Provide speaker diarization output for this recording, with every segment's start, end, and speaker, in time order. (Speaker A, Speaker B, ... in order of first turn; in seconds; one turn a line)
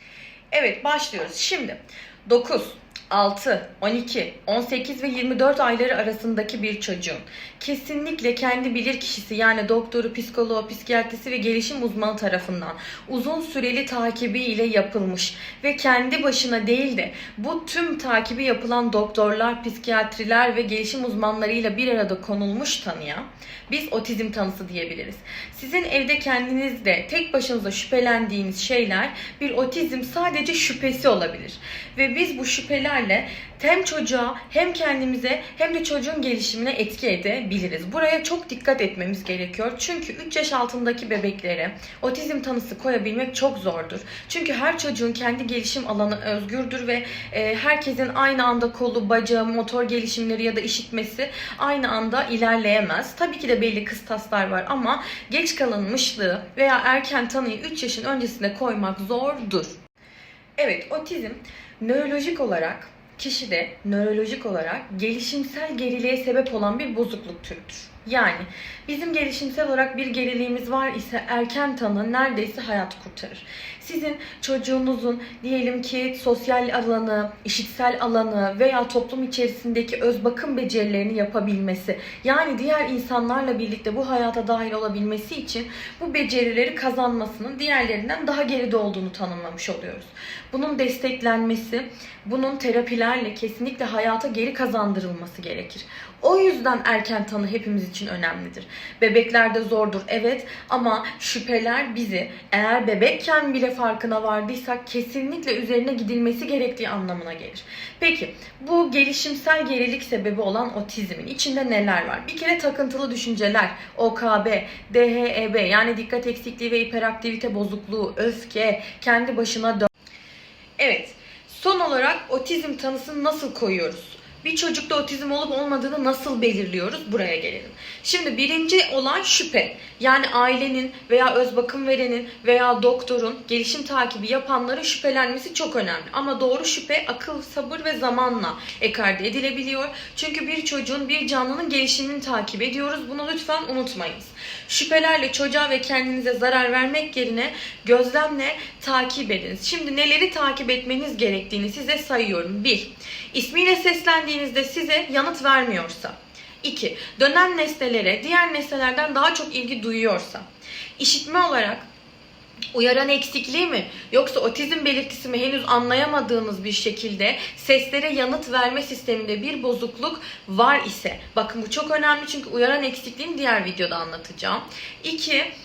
Speaker A: 0.5-59.8
Speaker A: 60.6-119.9
Speaker A: 120.8-160.4
Speaker A: 161.0-161.9
Speaker A: 162.7-175.5